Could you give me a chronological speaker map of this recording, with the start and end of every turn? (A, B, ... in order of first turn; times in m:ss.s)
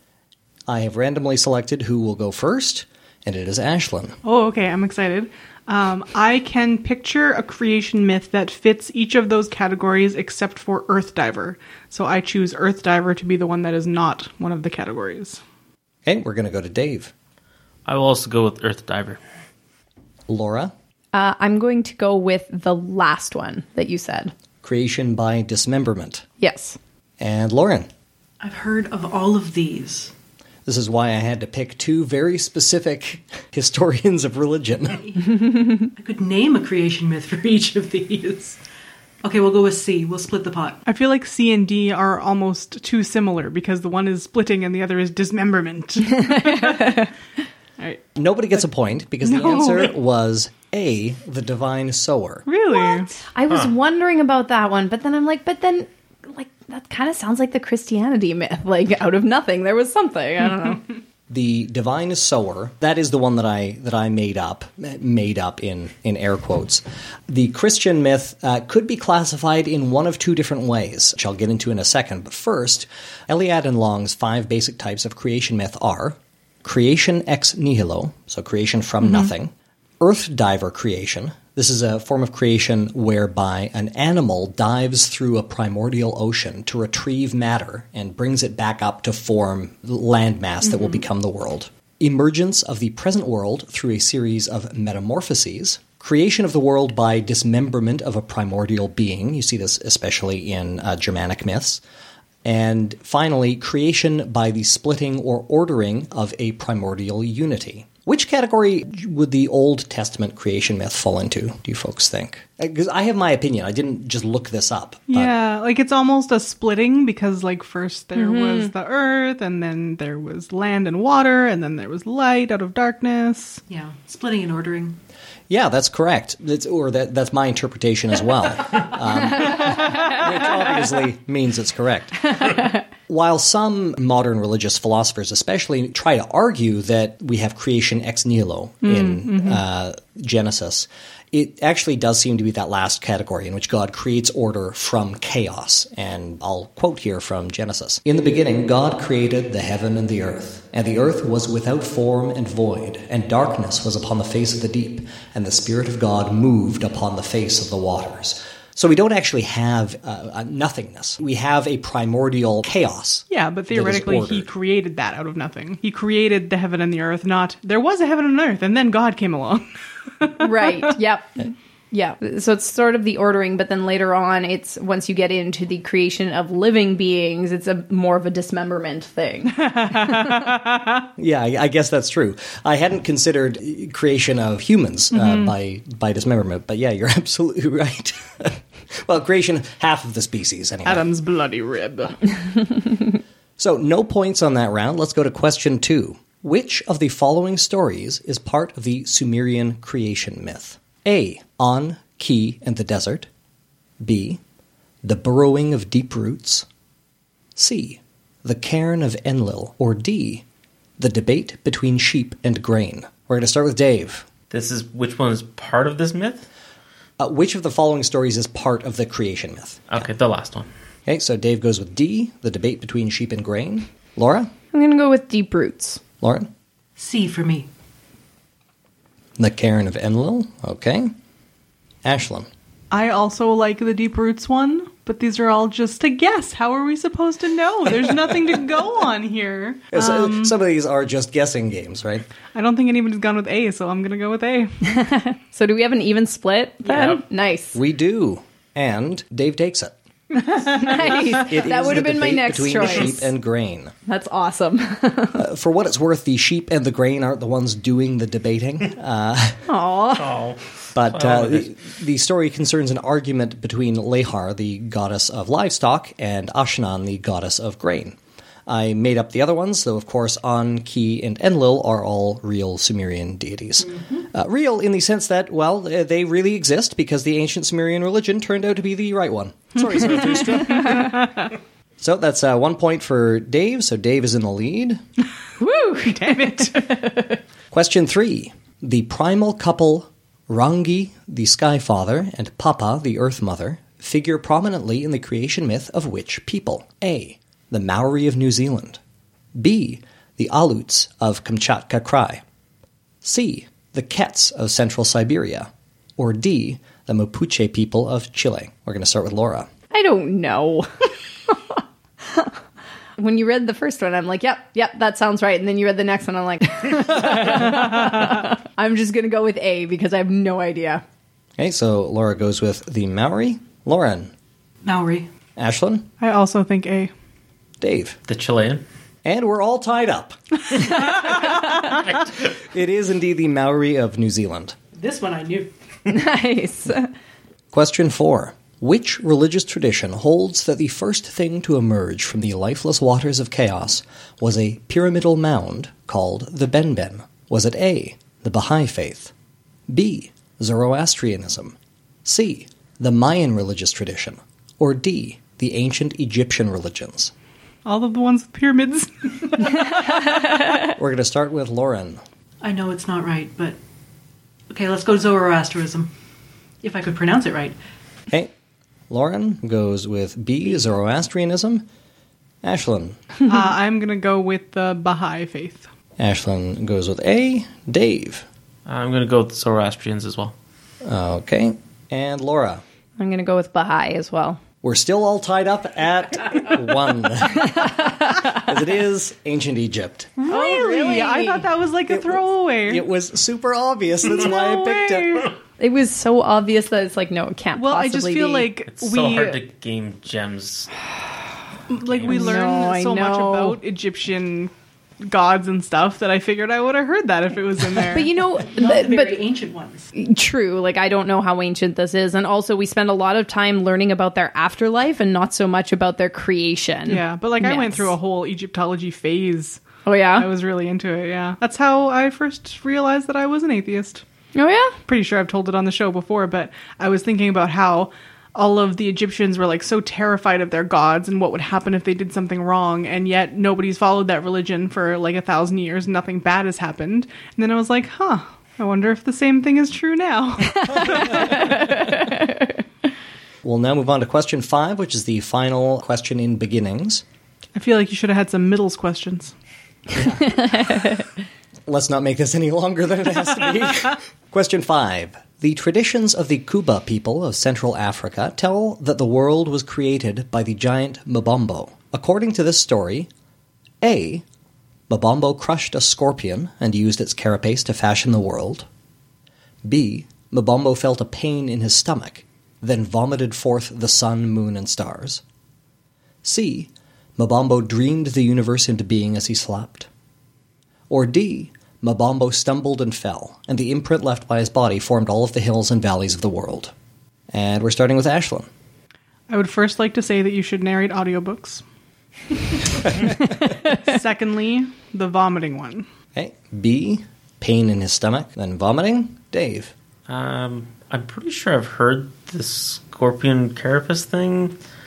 0:00.7-0:04.2 A
0:04.2-0:15.4 B
0:16.0-0:17.1 A
0:17.8-0:19.2 C
0:20.3-0:20.7 A
0:21.1-0:24.3 D
0:24.6-0:26.2 A
0:26.4-0:26.8 D
0:27.2-0:27.9 A
0:28.4-0:30.1 E
0:30.6-0:35.0 A
0:35.0-0:38.6 E
0:39.2-0:40.8 E
0:40.8-0:47.0 B
0:46.4-0:47.0 D
0:48.1-0:52.4 A
0:49.3-0:49.8 B
0:52.4-0:53.1 B
0:53.2-1:00.8 D
1:01.3-1:41.8 A
1:42.4-1:55.3 A
1:55.1-2:03.6 B
1:58.3-1:58.7 D
2:03.7-2:05.0 E
2:05.5-2:44.5 A
2:18.8-2:19.6 B
2:43.3-2:49.7 B
2:50.2-2:50.8 B
2:50.4-3:00.2 D
2:59.6-3:01.0 B
3:01.2-3:11.1 A
3:05.2-3:05.5 B
3:10.8-3:12.2 B
3:13.6-3:23.3 A
3:24.0-3:24.4 A
3:25.0-3:26.6 A
3:27.6-3:30.4 A
3:31.0-3:34.3 A
3:34.5-3:36.5 C
3:37.2-3:40.1 A
3:39.9-3:40.7 C
3:41.0-3:44.5 A
3:44.7-3:46.0 D
3:46.2-3:46.5 A
3:47.0-3:47.7 E
3:49.4-3:51.1 A
3:52.0-3:52.5 A
3:52.9-4:00.5 B
3:59.9-4:02.3 A
4:02.5-4:04.7 B
4:04.9-4:07.8 D
4:06.9-4:07.2 C
4:07.7-4:10.0 A
4:10.4-4:13.3 D
4:10.8-4:13.9 A
4:14.1-4:15.4 D
4:15.3-4:19.7 A
4:19.7-4:20.4 D
4:20.2-4:21.7 C
4:20.9-4:28.2 A
4:28.7-4:41.2 A
4:42.0-4:45.0 A
4:45.6-4:47.2 D
4:46.0-4:46.9 B
4:47.7-4:59.0 A
4:59.5-5:02.4 A
5:03.2-5:09.7 A
5:09.9-5:12.5 D
5:13.2-5:21.0 D
5:21.6-5:24.3 A
5:24.8-5:25.3 E
5:25.6-5:26.1 A
5:26.2-5:27.1 B
5:27.8-5:28.2 A
5:28.3-5:28.8 C
5:29.2-5:34.8 A
5:34.9-5:35.7 E
5:36.1-5:37.1 D
5:37.7-5:49.3 A
5:49.9-5:57.3 A
5:57.8-6:00.2 B
6:00.8-6:02.2 A
6:02.6-6:03.8 E
6:04.7-6:06.1 E
6:06.8-6:07.8 E
6:09.1-6:11.8 A
6:12.6-6:13.2 A
6:13.4-6:15.9 B
6:16.2-6:18.4 A
6:18.8-6:20.5 C
6:21.0-6:22.8 A
6:23.2-6:24.6 D
6:24.8-6:30.3 A
6:30.4-6:33.0 B
6:30.5-6:31.6 D
6:32.1-6:35.5 A
6:34.2-6:35.5 B
6:35.8-6:38.7 D
6:37.7-6:39.6 B
6:38.9-6:40.9 C
6:41.9-6:48.3 B
6:42.1-6:42.5 C
6:42.2-6:43.8 D
6:48.1-6:49.4 D
6:48.7-6:50.1 E
6:50.1-6:58.1 D
6:57.1-6:59.8 B
7:00.0-7:00.5 D
7:00.4-7:04.2 B
7:04.5-7:05.0 D
7:05.1-7:21.5 B
7:21.0-7:22.7 D
7:23.6-7:27.2 A
7:27.7-7:29.5 B
7:30.1-7:30.7 A
7:30.6-7:31.2 D
7:31.9-7:43.3 A
7:44.0-7:44.4 A
7:45.1-7:48.9 A
7:49.8-7:55.4 A
7:56.4-8:00.1 A
8:01.1-8:06.9 A
8:07.5-8:08.7 A
8:09.5-8:11.8 B
8:13.3-8:16.1 B
8:16.3-8:19.9 A
8:20.3-8:24.8 C